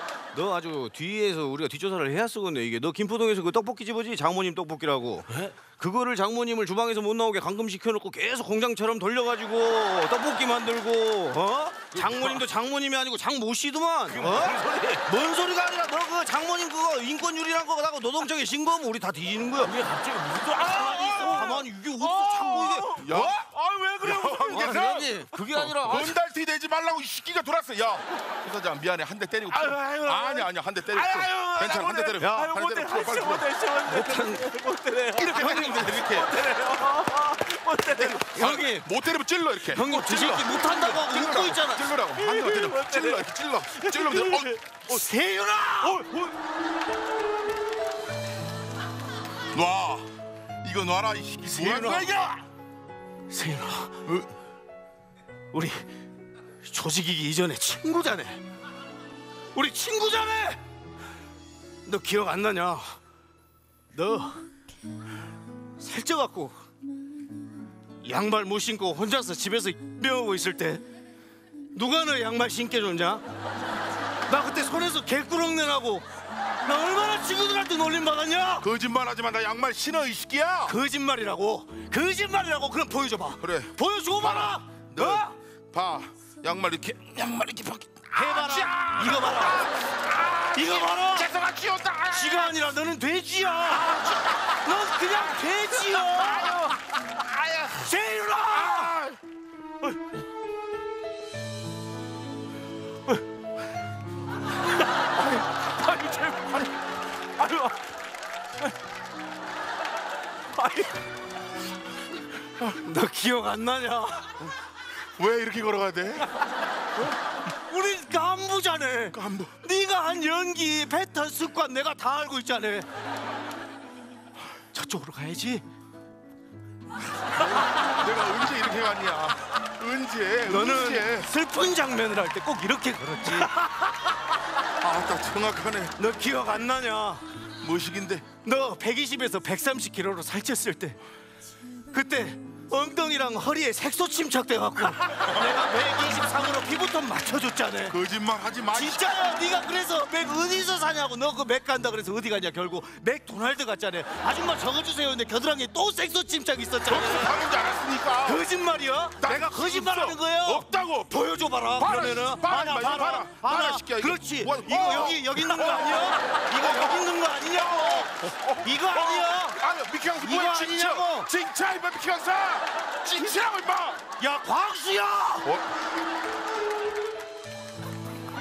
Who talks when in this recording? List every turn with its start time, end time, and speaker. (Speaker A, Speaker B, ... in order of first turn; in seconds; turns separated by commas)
Speaker A: 0.3-19.8, Speaker B: 5.3-5.6, Speaker B: 11.9-12.4, Speaker B: 14.1-15.1, Speaker B: 19.6-26.0, Speaker A: 20.5-23.4, Speaker C: 23.0-23.5, Speaker C: 24.0-25.2, Speaker A: 24.1-26.2, Speaker C: 25.8-33.5, Speaker B: 29.5-38.5, Speaker A: 32.2-32.6, Speaker A: 33.9-34.5, Speaker C: 35.2-36.4, Speaker C: 38.0-44.6, Speaker A: 38.2-38.9, Speaker A: 39.6-42.0, Speaker B: 42.2-44.5, Speaker A: 44.8-46.0, Speaker B: 45.8-46.3, Speaker C: 49.5-52.3, Speaker A: 51.5-52.4, Speaker A: 53.3-54.0, Speaker C: 54.0-54.3, Speaker A: 55.5-55.9, Speaker A: 56.6-58.4, Speaker A: 59.5-60.6, Speaker A: 61.9-63.0, Speaker A: 63.9-64.4, Speaker A: 65.8-66.6, Speaker A: 68.0-70.8, Speaker A: 71.7-73.2, Speaker A: 74.3-76.1, Speaker A: 76.6-78.7, Speaker C: 78.6-80.8, Speaker A: 80.7-85.3, Speaker C: 83.4-92.6, Speaker A: 88.1-89.7, Speaker A: 90.5-91.3, Speaker A: 92.1-96.7, Speaker C: 93.8-94.5, Speaker C: 96.0-97.7, Speaker A: 97.7-98.9, Speaker C: 98.5-99.2, Speaker B: 105.9-106.3, Speaker A: 106.0-106.5, Speaker B: 107.4-107.7, Speaker A: 112.7-114.5, Speaker C: 115.2-116.3, Speaker A: 117.5-122.9, Speaker C: 119.1-119.6, Speaker A: 124.7-125.6, Speaker C: 127.3-131.3, Speaker A: 130.4-133.7, Speaker C: 134.8-136.0, Speaker A: 136.0-137.2, Speaker C: 137.6-138.3, Speaker A: 138.4-141.0, Speaker A: 141.9-148.0, Speaker C: 147.9-149.2, Speaker A: 148.7-157.4, Speaker C: 156.9-158.4, Speaker A: 158.2-169.6, Speaker C: 159.2-174.1, Speaker A: 170.2-171.3, Speaker A: 174.2-175.5, Speaker C: 175.4-175.7